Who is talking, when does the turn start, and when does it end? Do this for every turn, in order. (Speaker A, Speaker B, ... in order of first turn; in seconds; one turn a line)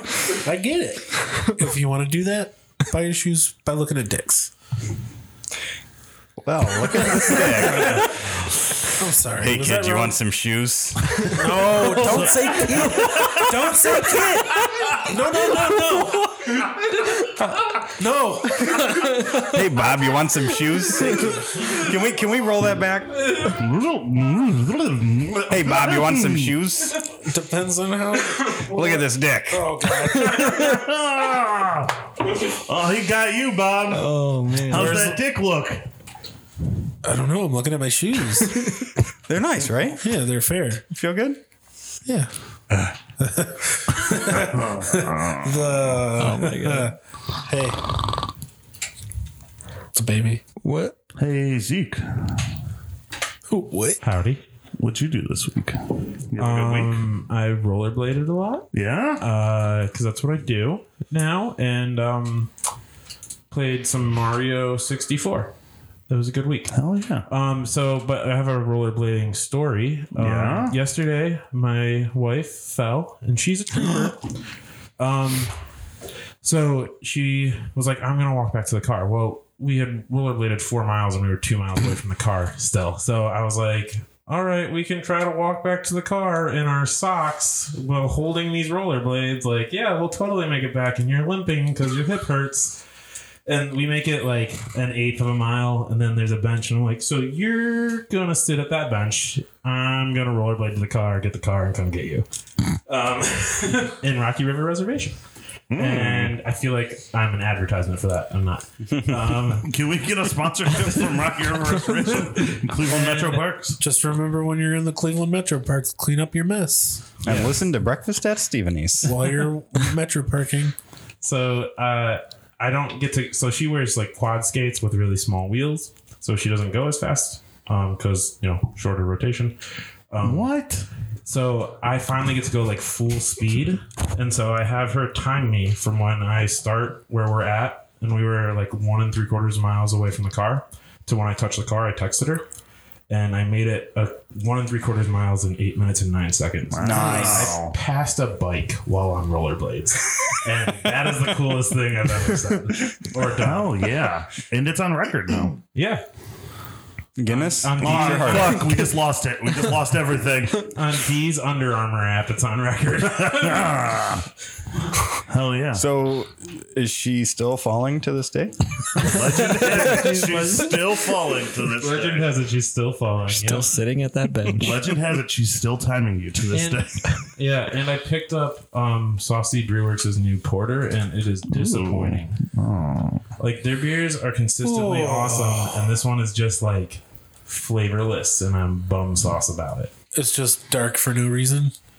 Speaker A: 0.2-4.5
Speaker B: 6.4-8.2
Speaker A: 6.7-8.2
Speaker A: 8.9-10.1
Speaker B: 9.4-11.6
Speaker A: 11.2-17.0
Speaker C: 12.0-13.4
Speaker A: 17.9-19.6
Speaker B: 19.4-23.2
Speaker C: 23.4-26.6
Speaker B: 25.5-27.1
Speaker A: 27.1-30.7
Speaker B: 28.6-29.8
Speaker C: 30.1-35.9
Speaker D: 33.9-35.1
Speaker A: 34.7-35.2
Speaker A: 37.0-38.8
Speaker B: 39.3-40.1
Speaker A: 40.0-40.8
Speaker B: 40.9-41.4
Speaker A: 43.2-47.8
Speaker C: 44.1-46.0
Speaker D: 46.1-46.9
Speaker A: 49.9-50.4
Speaker D: 50.6-51.0
Speaker C: 51.2-52.5
Speaker A: 53.5-54.0
Speaker E: 54.0-54.4
Speaker C: 54.8-57.0
Speaker E: 56.4-62.5
Speaker C: 58.7-59.2
Speaker E: 63.5-65.5
Speaker E: 66.1-66.7
Speaker C: 66.7-67.3
Speaker E: 67.3-74.4
Speaker C: 70.1-70.8
Speaker E: 75.0-75.5
Speaker E: 76.4-92.8
Speaker E: 93.5-102.3
Speaker E: 102.9-105.2
Speaker C: 105.7-106.4
Speaker E: 105.7-109.7
Speaker C: 109.6-113.8
Speaker E: 112.5-113.5
Speaker A: 113.8-117.4
Speaker B: 117.2-119.4
Speaker A: 119.0-120.7
Speaker E: 121.2-129.6
Speaker E: 130.1-130.5
Speaker C: 130.2-130.9
Speaker E: 131.3-142.4
Speaker E: 143.1-153.8
Speaker C: 146.7-147.8
Speaker B: 146.8-147.6
Speaker A: 147.0-147.4
Speaker C: 153.4-155.6
Speaker E: 155.7-156.0
Speaker B: 157.2-158.7
Speaker E: 157.3-158.9
Speaker C: 157.8-160.7
Speaker E: 160.6-163.8
Speaker C: 163.1-164.3
Speaker C: 165.3-165.8
Speaker B: 165.7-168.6
Speaker C: 168.9-172.3
Speaker E: 169.5-170.8
Speaker D: 169.5-170.6
Speaker E: 171.8-173.7
Speaker D: 173.3-174.9
Speaker C: 174.6-177.2
Speaker E: 176.5-182.4
Speaker C: 181.5-183.3
Speaker E: 183.4-189.9
Speaker A: 184.6-186.0
Speaker A: 190.1-191.7